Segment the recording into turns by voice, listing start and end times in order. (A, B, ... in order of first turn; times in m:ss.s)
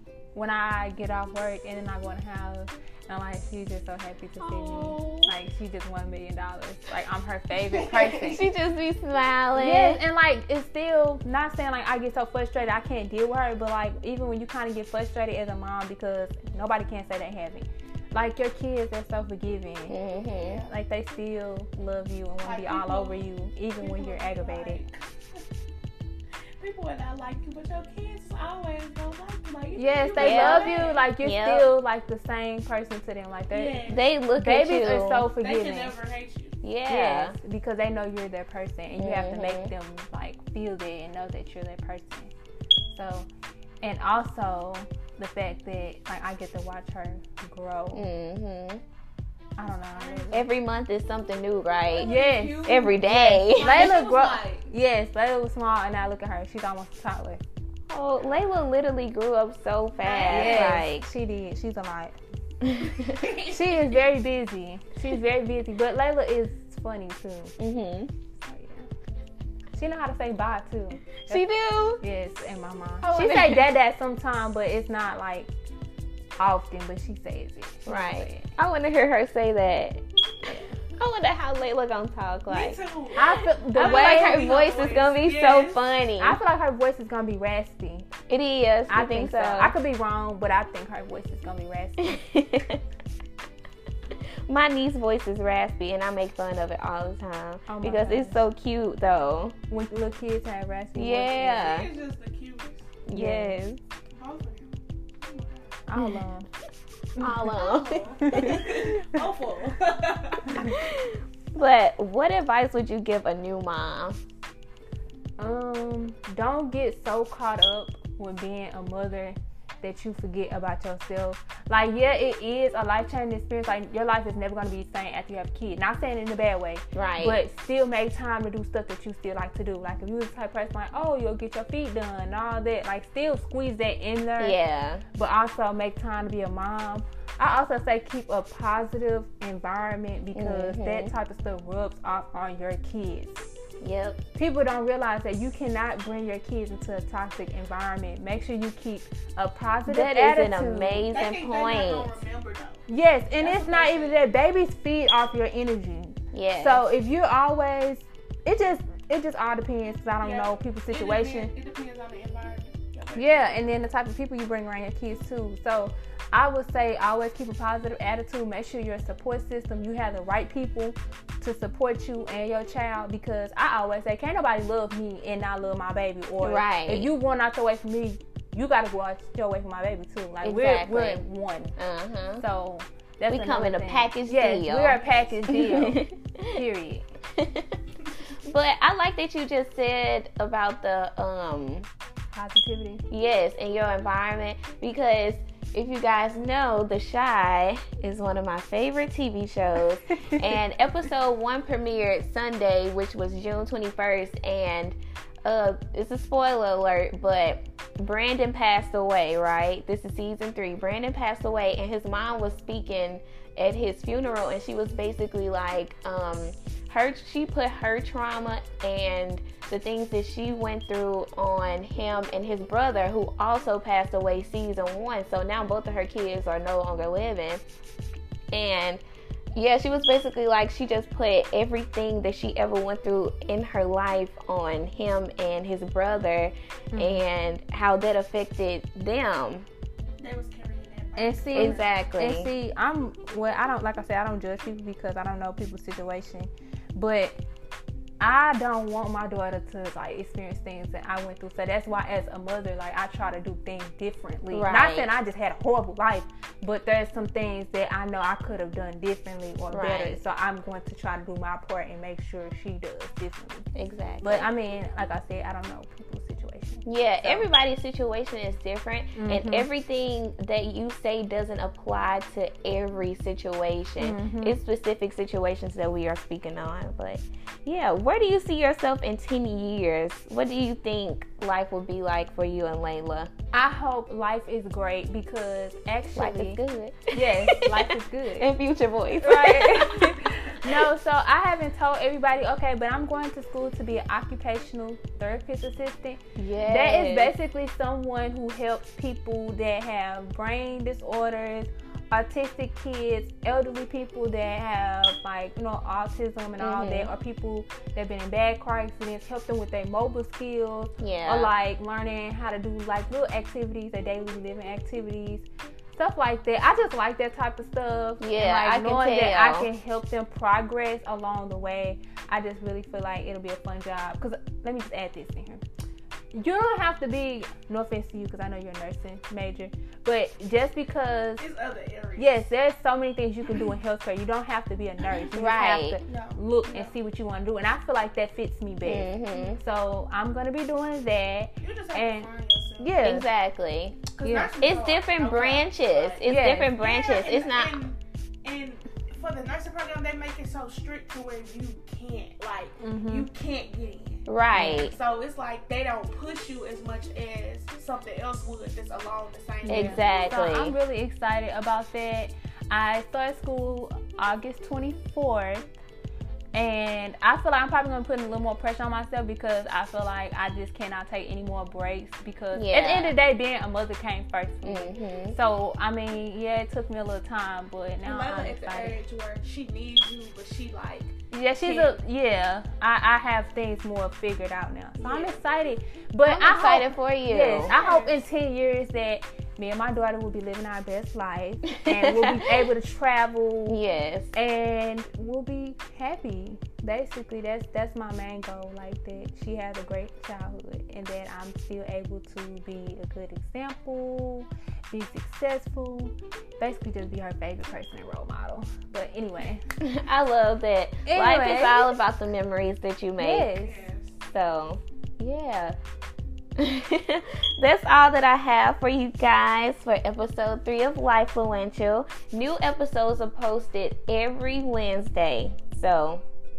0:00.4-0:08.4 A
0:04.4-0:05.3 B
0:07.8-0:08.2 B
0:08.0-0:10.0 C
0:09.6-0:20.0 A
0:19.9-0:20.6 C
0:20.4-0:20.6 B
0:20.7-0:24.8 A
0:22.4-0:23.3 B
0:23.8-0:25.4 B
0:26.6-0:31.1 B
0:29.8-0:36.0 A
0:30.2-0:31.7 C
0:33.5-0:34.0 B
0:33.9-0:35.3 C
0:35.4-0:36.6 B
0:36.6-0:37.4 C
0:36.9-0:42.3 A
0:39.0-0:39.7 C
0:42.9-0:43.3 A
0:43.8-0:48.0 A
0:47.9-0:48.8 C
0:49.6-0:50.5 A
0:49.6-0:50.4 B
0:50.3-0:54.0 C
0:51.9-0:54.6 B
0:52.0-0:57.4 A
0:57.9-1:01.0 C
1:00.0-1:00.8 B
1:00.3-1:02.2 A
1:02.6-1:03.3 C
1:03.0-1:07.5 A
1:07.6-1:08.1 C
1:08.4-1:08.9 A
1:09.8-1:11.5 A
1:11.3-1:12.0 C
1:12.0-1:15.5 A
1:13.0-1:13.7 C
1:16.4-1:18.5 A
1:17.9-1:26.4 C
1:22.5-1:25.8 B
1:23.2-1:24.5 A
1:26.2-1:28.1 A
1:28.3-1:29.7 C
1:28.9-1:32.2 A
1:32.0-1:32.8 C
1:34.5-1:39.6 C
1:37.7-1:38.4 A
1:39.7-1:41.8 A
1:41.0-1:41.9 C
1:41.5-1:43.0 B
1:43.1-1:43.8 C
1:43.1-1:43.6 A
1:44.2-1:45.9 B
1:45.9-1:46.5 A
1:47.2-1:47.5 A
1:47.2-1:48.6 C
1:47.5-1:50.7 B
1:48.2-1:49.2 A
1:50.6-1:54.2 C
1:55.4-2:14.6 A
2:06.9-2:07.4 C
2:14.4-2:15.0 C
2:15.2-2:23.5 A
2:20.3-2:21.1 C
2:23.8-2:24.2 C
2:24.4-2:31.1 A
2:29.9-2:32.2 C
2:31.1-2:32.9 B
2:32.9-2:41.5 A
2:33.4-2:34.2 B
2:36.3-2:36.8 C
2:40.2-2:43.5 B
2:43.2-3:01.8 A
2:56.4-2:57.1 C
3:00.4-3:01.2 C
3:01.8-3:02.4 C
3:02.4-3:07.1 A
3:03.3-3:06.6 C
3:07.4-3:07.8 C
3:08.4-3:11.9 C
3:12.3-3:13.0 A
3:13.1-3:47.6 C
3:48.5-3:49.0 C
3:49.6-3:59.7 C
3:56.9-3:57.2 A
4:00.2-4:01.9 B
4:01.2-4:07.4 A
4:01.5-4:02.5 C
4:08.2-4:23.7 A
4:14.5-4:15.1 C
4:19.7-4:20.2 C
4:23.8-4:24.5 C
4:24.2-4:27.5 A
4:26.8-4:43.3 C
4:29.2-4:29.7 A
4:34.0-4:34.6 A
4:43.5-4:46.6 A
4:46.2-4:50.9 C
4:47.1-4:48.5 A
4:49.2-5:25.6 A
4:56.4-4:57.3 C
5:06.6-5:07.1 C
5:11.0-5:11.5 C
5:18.2-5:19.7 C
5:26.3-5:31.4 A
5:31.4-5:32.5 B
5:32.2-5:43.3 A
5:35.3-5:36.0 C
5:36.1-5:36.9 B
5:38.8-5:39.6 C
5:41.6-5:43.2 B
5:43.0-5:47.8 C
5:44.1-5:46.2 B
5:44.2-5:44.6 A
5:46.2-5:46.8 A
5:46.8-6:00.0 B
5:52.8-5:53.3 A
5:54.3-5:55.0 C
5:54.5-5:54.9 A
5:59.6-6:05.7 A
5:59.7-6:00.8 C
6:06.5-6:19.0 A
6:12.5-6:13.2 C
6:14.6-6:15.4 C
6:18.0-6:22.0 B
6:21.3-6:33.8 A
6:25.0-6:25.4 B
6:26.2-6:27.8 C
6:27.7-6:28.2 B
6:31.8-6:32.7 C
6:33.7-6:34.4 C
6:34.3-6:49.6 A
6:49.8-6:53.6 C
6:51.1-6:51.9 A
6:53.2-6:53.8 A
6:53.6-6:54.2 B
6:54.3-6:55.8 C
6:56.6-7:06.2 C